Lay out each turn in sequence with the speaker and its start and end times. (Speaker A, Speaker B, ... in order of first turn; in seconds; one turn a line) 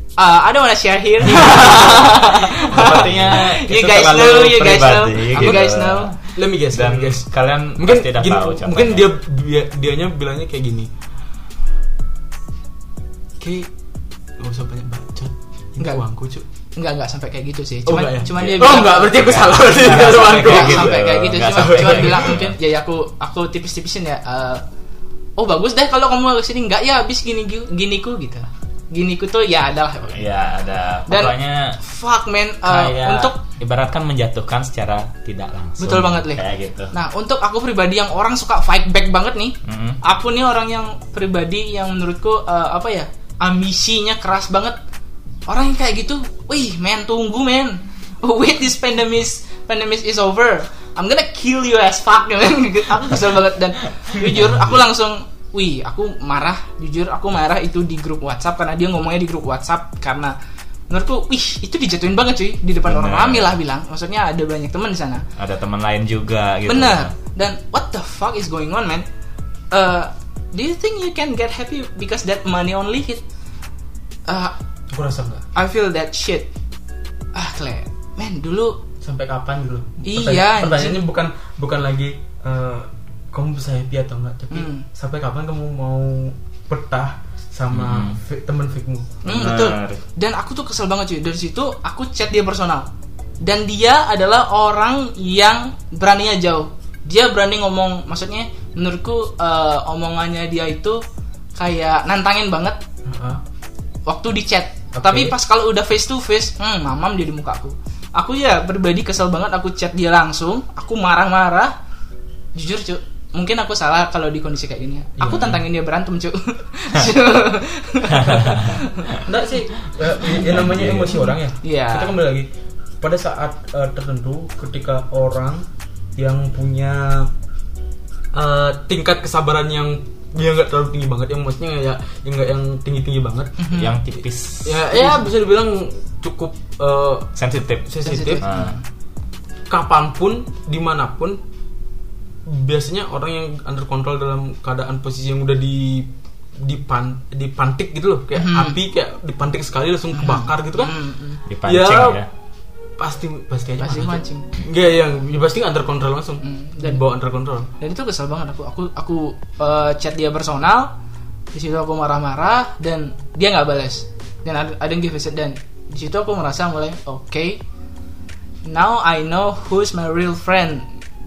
Speaker A: 0.2-6.2
Speaker B: 1.3-6.2
Speaker C: 1.5-1.9
Speaker C: 2.7-3.5
Speaker C: 5.3-5.7
Speaker C: 6.2-10.9
Speaker B: 6.7-9.1
Speaker C: 13.4-13.7
Speaker C: 14.4-16.4
Speaker A: 16.7-24.6
Speaker C: 17.9-20.9
Speaker B: 18.3-22.6
Speaker C: 21.5-22.4
Speaker A: 25.4-30.3
Speaker B: 30.1-31.8
Speaker A: 31.1-33.4
Speaker B: 32.6-36.9
Speaker A: 35.8-44.8
Speaker B: 39.6-40.0
Speaker A: 45.5-60.3
Speaker A: 60.9-65.2
Speaker B: 62.9-63.5
Speaker B: 65.4-67.1
Speaker A: 66.7-69.1
Speaker A: 69.7-73.2
Speaker A: 74.3-74.5
Speaker C: 74.9-75.5
Speaker A: 75.5-76.5
Speaker A: 77.3-78.8
Speaker C: 79.0-89.2
Speaker A: 80.0-81.0
Speaker A: 84.5-84.8
Speaker B: 87.7-88.2
Speaker A: 89.2-92.9
Speaker B: 89.2-90.0
Speaker A: 93.4-101.0
Speaker A: 101.6-102.8
Speaker C: 103.0-103.4
Speaker A: 104.1-111.7
Speaker C: 104.9-105.3
Speaker A: 112.5-119.2
Speaker C: 115.2-115.6
Speaker B: 118.1-118.9
Speaker C: 119.2-122.5
Speaker B: 120.4-121.3
Speaker A: 121.6-122.2
Speaker C: 123.0-127.3
Speaker C: 128.3-133.6
Speaker A: 133.6-133.9
Speaker B: 133.7-134.9
Speaker C: 134.6-138.4
Speaker A: 134.9-135.3
Speaker B: 137.3-138.8
Speaker A: 138.0-138.8
Speaker C: 139.7-141.4
Speaker C: 142.4-151.0
Speaker A: 148.3-148.8
Speaker A: 150.1-151.4
Speaker B: 151.5-152.3
Speaker C: 151.6-152.2
Speaker C: 153.0-157.7
Speaker A: 153.8-154.4
Speaker A: 156.4-157.0
Speaker A: 157.8-160.9
Speaker A: 161.5-167.6
Speaker A: 168.6-170.9